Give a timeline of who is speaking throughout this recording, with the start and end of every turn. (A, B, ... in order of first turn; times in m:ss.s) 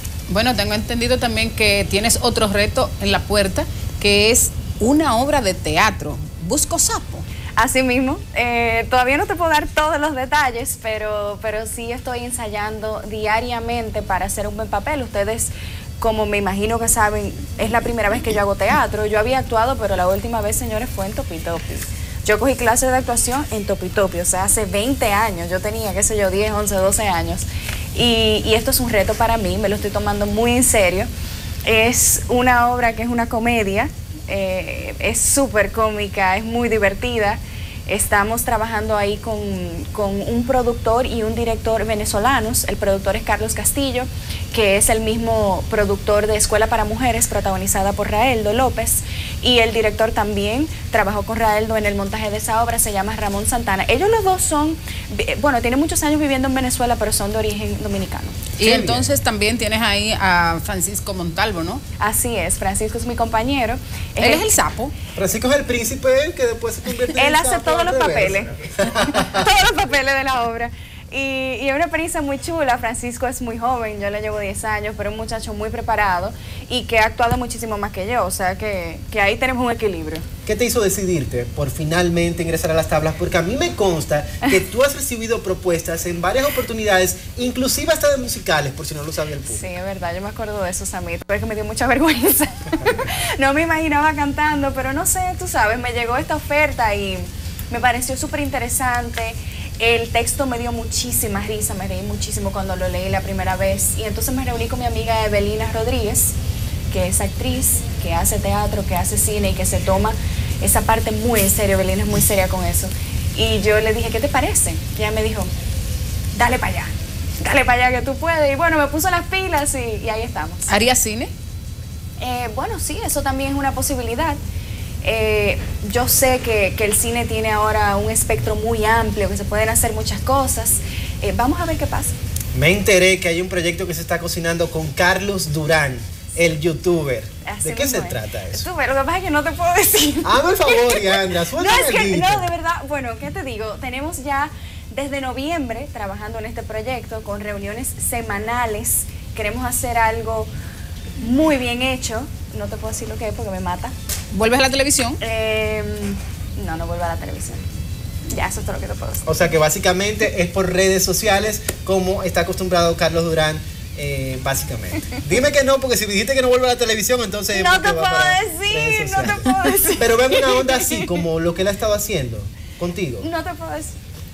0:00.3-0:07.2 A
0:07.6-0:31.1 B
0:31.6-0:58.4 B
0:58.6-1:01.8 A
0:58.6-0:59.1 C
1:02.0-1:04.5 B
1:04.2-1:04.9 A
1:05.2-1:09.5 C
1:07.2-1:20.3 B
1:20.5-1:29.6 C
1:29.5-1:46.3 B
1:32.7-1:33.2 C
1:46.9-1:55.5 B
1:56.3-2:00.7 B
2:00.7-2:01.3 A
2:02.2-2:04.4 B
2:05.0-2:12.2 B
2:12.5-2:18.7 C
2:17.5-2:30.5 B
2:20.2-2:22.5 C
2:31.2-2:33.9 B
2:34.3-2:35.2 A
2:35.2-2:37.6 B
2:38.3-2:39.4 B
2:39.3-2:53.3 C
2:47.5-2:51.2 B
2:53.2-2:54.0 B